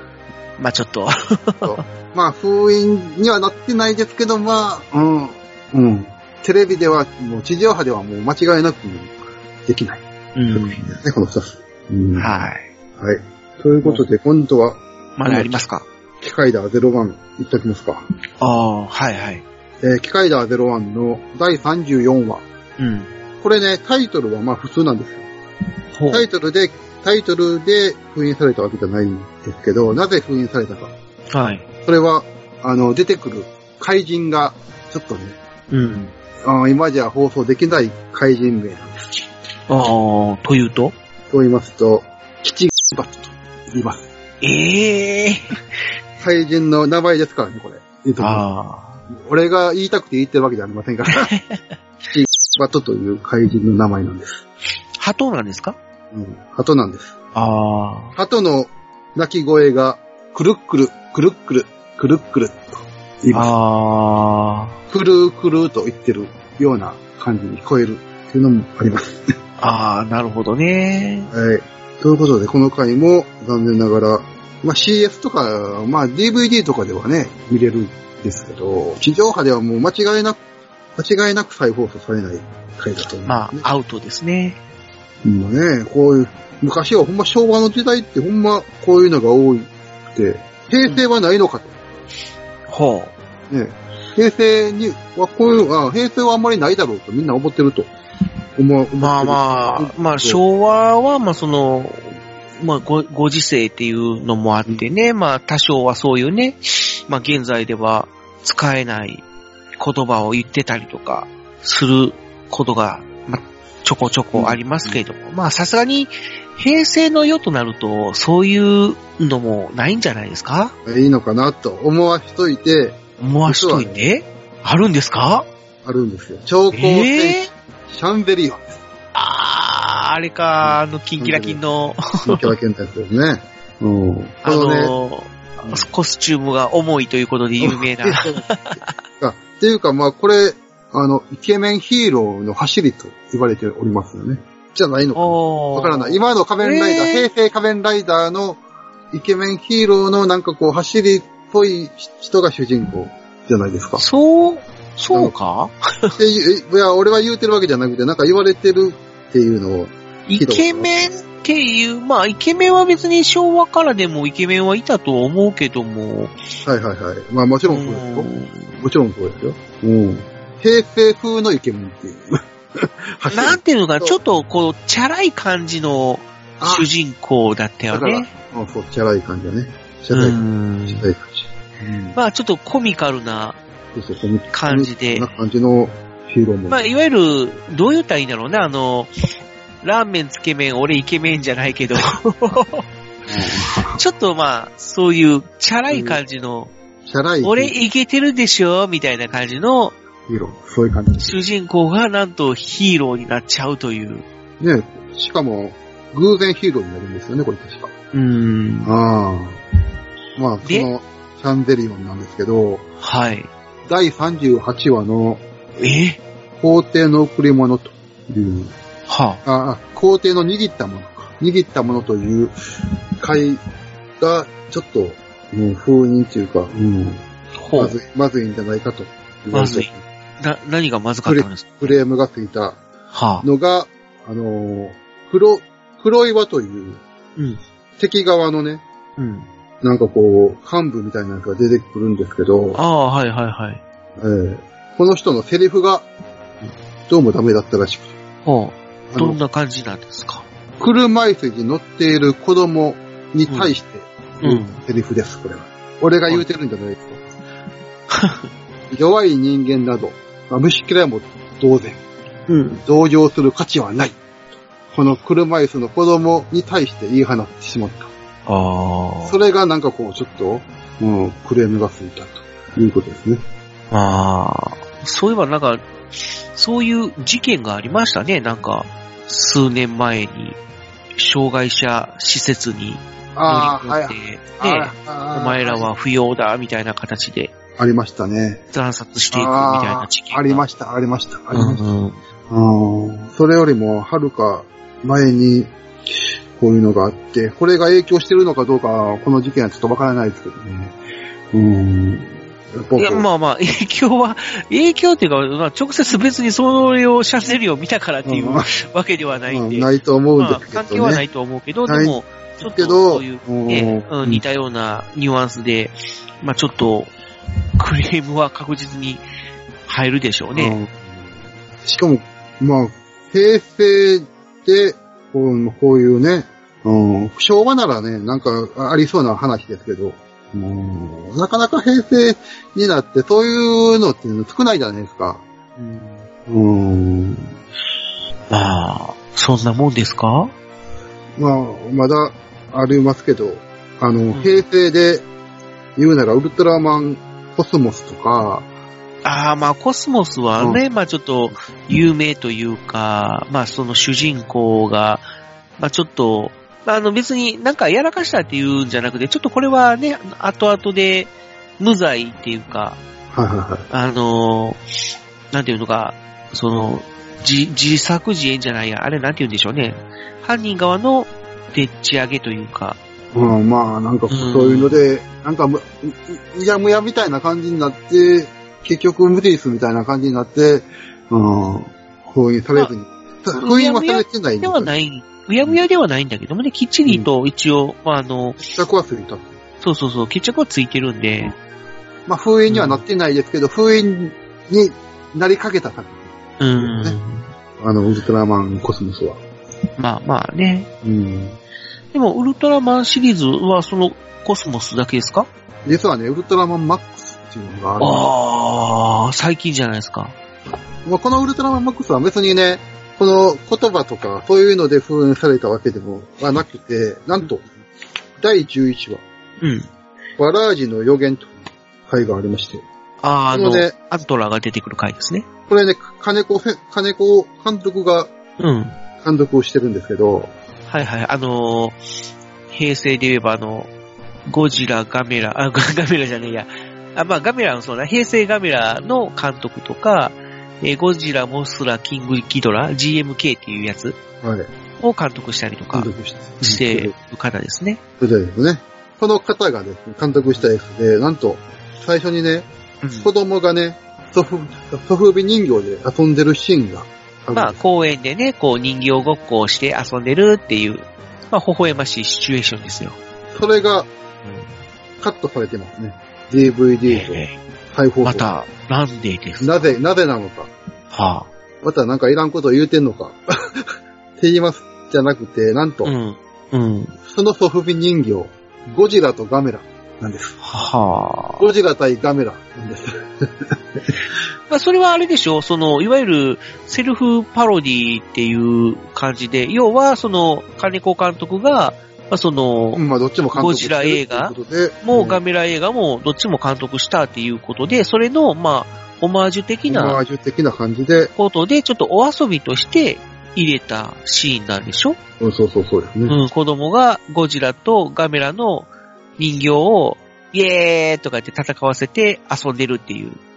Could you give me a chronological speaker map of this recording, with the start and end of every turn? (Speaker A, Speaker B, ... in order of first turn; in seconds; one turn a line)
Speaker A: 0.6-1.8
Speaker B: 1.6-12.3
Speaker A: 10.3-11.0
Speaker A: 12.2-12.7
Speaker B: 13.0-15.6
Speaker A: 15.2-15.8
Speaker B: 16.2-18.0
Speaker A: 18.4-19.4
Speaker B: 19.8-22.4
Speaker A: 22.8-23.1
Speaker B: 23.4-25.3
Speaker A: 25.9-26.3
Speaker B: 26.1-30.9
Speaker A: 31.3-31.6
Speaker B: 31.8-35.4
Speaker A: 35.7-36.1
Speaker B: 36.4-39.1
Speaker A: 39.7-40.9
Speaker B: 41.3-44.0
Speaker A: 44.4-45.6
Speaker B: 46.2-48.5
Speaker A: 48.2-49.0
Speaker B: 49.1-51.3
Speaker A: 51.1-51.6
Speaker B: 52.1-54.4
Speaker A: 55.0-55.8
Speaker B: 56.1-57.1
Speaker A: 57.3-58.1
Speaker B: 58.1-63.5
Speaker A: 63.3-64.8
Speaker B: 64.9-69.3
Speaker A: 69.6-71.3
Speaker B: 71.3-80.4
Speaker B: 81.0-83.7
Speaker A: 83.2-84.6
Speaker B: 85.2-91.7
Speaker A: 92.7-93.1
Speaker B: 93.5-97.9
Speaker B: 98.6-100.4
Speaker A: 99.0-109.2
Speaker A: 109.8-120.7
Speaker B: 114.3-115.0
Speaker B: 120.8-124.1
Speaker A: 123.2-125.5
Speaker B: 125.8-128.8
Speaker A: 126.7-127.5
Speaker A: 129.1-132.5
Speaker B: 130.6-131.6
Speaker B: 132.2-134.9
Speaker A: 134.4-138.8
Speaker B: 135.6-135.9
Speaker B: 137.6-138.5
Speaker B: 139.2-148.6
Speaker A: 145.2-147.2
Speaker B: 149.1-154.0
Speaker A: 154.0-156.2
Speaker B: 156.1-160.9
Speaker A: 160.3-166.3
Speaker B: 166.6-174.2
Speaker A: 167.7-168.7
Speaker A: 173.3-178.3
Speaker B: 176.6-176.9
Speaker B: 177.9-182.2
Speaker A: 180.1-181.0
Speaker A: 182.1-183.6
Speaker B: 183.9-186.8
Speaker A: 184.5-185.3
Speaker A: 186.7-189.1
Speaker A: 189.8-192.8
Speaker B: 193.3-194.0
Speaker A: 193.9-196.7
Speaker B: 195.9-196.2
Speaker B: 197.1-197.7
Speaker A: 197.4-199.9
Speaker B: 200.3-201.4
Speaker A: 201.2-204.2
Speaker B: 204.6-207.9
Speaker A: 208.1-208.9
Speaker B: 208.8-209.6
Speaker B: 210.3-212.8
Speaker A: 210.6-210.9
Speaker A: 213.0-213.5
Speaker B: 213.8-215.4
Speaker A: 215.8-216.2
Speaker B: 216.6-218.7
Speaker A: 219.1-219.4
Speaker B: 219.4-222.5
Speaker B: 223.2-223.6
Speaker B: 224.2-227.2
Speaker A: 227.6-227.9
Speaker B: 227.8-230.0
Speaker A: 229.5-232.0
Speaker B: 231.2-232.8
Speaker A: 233.1-233.4
Speaker B: 233.4-237.0
Speaker B: 238.0-238.8
Speaker A: 239.2-239.5
Speaker B: 239.8-242.8
Speaker A: 242.7-243.8
Speaker B: 244.2-246.1
Speaker B: 247.1-248.1
Speaker A: 248.4-250.4
Speaker B: 249.1-249.4
Speaker B: 250.8-257.3
Speaker A: 254.4-254.8
Speaker A: 258.1-258.5
Speaker B: 258.9-262.0
Speaker A: 262.5-262.8
Speaker B: 262.8-264.2
Speaker B: 264.9-268.1
Speaker A: 268.4-269.4
Speaker B: 269.2-273.4
Speaker A: 273.9-275.8
Speaker A: 276.5-280.6
Speaker A: 281.1-287.5
Speaker B: 283.4-285.9
Speaker B: 287.8-288.6
Speaker A: 288.7-290.6
Speaker B: 289.3-291.8
Speaker A: 291.5-292.2
Speaker B: 292.5-295.7
Speaker B: 296.6-300.9
Speaker B: 301.5-303.2
Speaker A: 303.0-317.1
Speaker B: 308.2-308.7
Speaker B: 309.5-311.2
Speaker B: 311.9-314.4
Speaker A: 317.8-319.2
Speaker A: 319.9-320.8
Speaker B: 320.5-321.3
Speaker B: 321.8-335.4
Speaker A: 335.8-336.2
Speaker B: 336.4-337.5
Speaker A: 338.5-340.5
Speaker B: 341.4-345.2
Speaker B: 345.9-348.6
Speaker A: 349.2-355.2
Speaker A: 355.8-363.0
Speaker B: 363.3-363.9
Speaker A: 363.9-364.8
Speaker A: 365.5-373.0
Speaker B: 373.3-384.9
Speaker A: 374.3-375.0
Speaker A: 383.5-388.6
Speaker B: 388.7-389.5
Speaker A: 389.8-391.5
Speaker B: 392.3-397.2
Speaker A: 392.7-393.0
Speaker A: 396.6-397.4
Speaker B: 397.8-399.4
Speaker A: 400.0-400.9
Speaker B: 401.0-401.6
Speaker A: 402.1-405.5
Speaker B: 405.8-408.2
Speaker A: 408.0-410.3
Speaker B: 411.0-417.6
Speaker B: 418.4-419.2
Speaker A: 419.6-419.9
Speaker B: 420.4-422.8
Speaker A: 423.2-425.5
Speaker B: 423.5-423.9
Speaker B: 425.7-428.3
Speaker A: 428.6-429.0
Speaker B: 429.2-430.5
Speaker A: 430.9-432.0
Speaker A: 432.7-433.9
Speaker A: 434.5-444.2
Speaker B: 444.4-444.7
Speaker A: 445.0-448.0
Speaker B: 445.9-447.1
Speaker B: 448.2-452.7
Speaker A: 453.0-453.3
Speaker B: 453.2-457.8
Speaker A: 457.5-463.2
Speaker B: 463.5-464.1
Speaker A: 464.4-464.7
Speaker B: 465.2-468.5
Speaker A: 467.1-467.6
Speaker A: 468.2-470.0
Speaker B: 469.6-470.7
Speaker A: 471.1-471.5
Speaker B: 471.8-473.9
Speaker B: 474.4-476.1
Speaker A: 476.0-477.1
Speaker B: 477.2-480.6
Speaker A: 480.6-481.7
Speaker B: 481.6-484.2
Speaker A: 484.7-493.0
Speaker B: 492.9-495.4
Speaker A: 493.5-500.2
Speaker B: 499.9-501.3
Speaker A: 501.4-505.2
Speaker B: 505.4-506.4
Speaker A: 506.3-513.4